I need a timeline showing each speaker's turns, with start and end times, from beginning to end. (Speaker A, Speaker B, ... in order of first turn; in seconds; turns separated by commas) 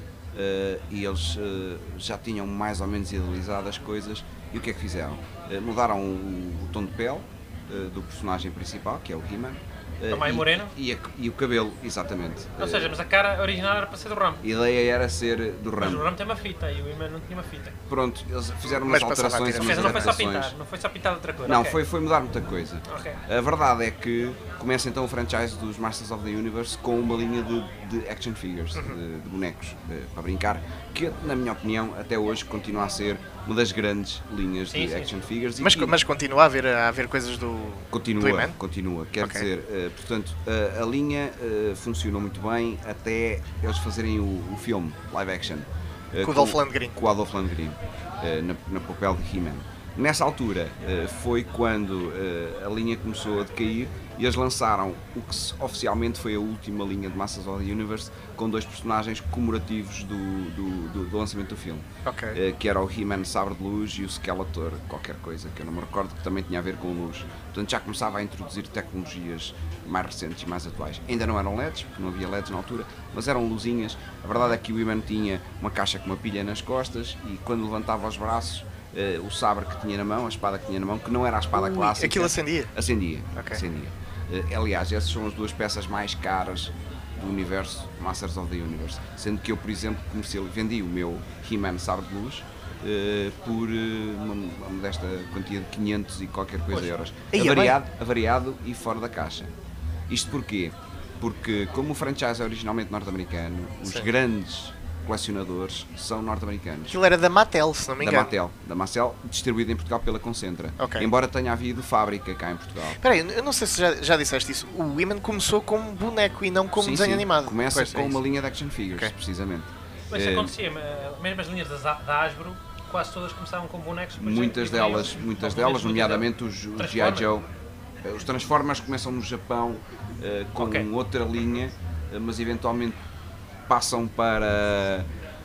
Speaker A: 0.3-12.9, Speaker B: 10.1-10.7, Speaker B: 12.6-14.4, Speaker A: 14.4-16.1, Speaker B: 15.8-17.8, Speaker A: 17.9-20.5, Speaker C: 18.7-20.2, Speaker B: 19.6-21.8, Speaker A: 21.4-36.0, Speaker B: 22.9-23.2, Speaker B: 34.7-35.2, Speaker C: 35.6-38.5, Speaker A: 37.9-99.5, Speaker C: 39.2-39.5, Speaker C: 46.2-47.0, Speaker C: 62.1-62.4, Speaker C: 81.5-82.7, Speaker C: 83.4-83.6, Speaker C: 96.8-97.8, Speaker A: 100.1-107.0, Speaker C: 106.9-108.3, Speaker A: 108.0-113.0, Speaker C: 110.8-111.1, Speaker C: 113.0-118.2, Speaker A: 116.8-120.5, Speaker B: 120.1-127.3, Speaker A: 124.2-127.5, Speaker A: 128.0-133.0, Speaker B: 130.6-130.9, Speaker A: 133.7-135.1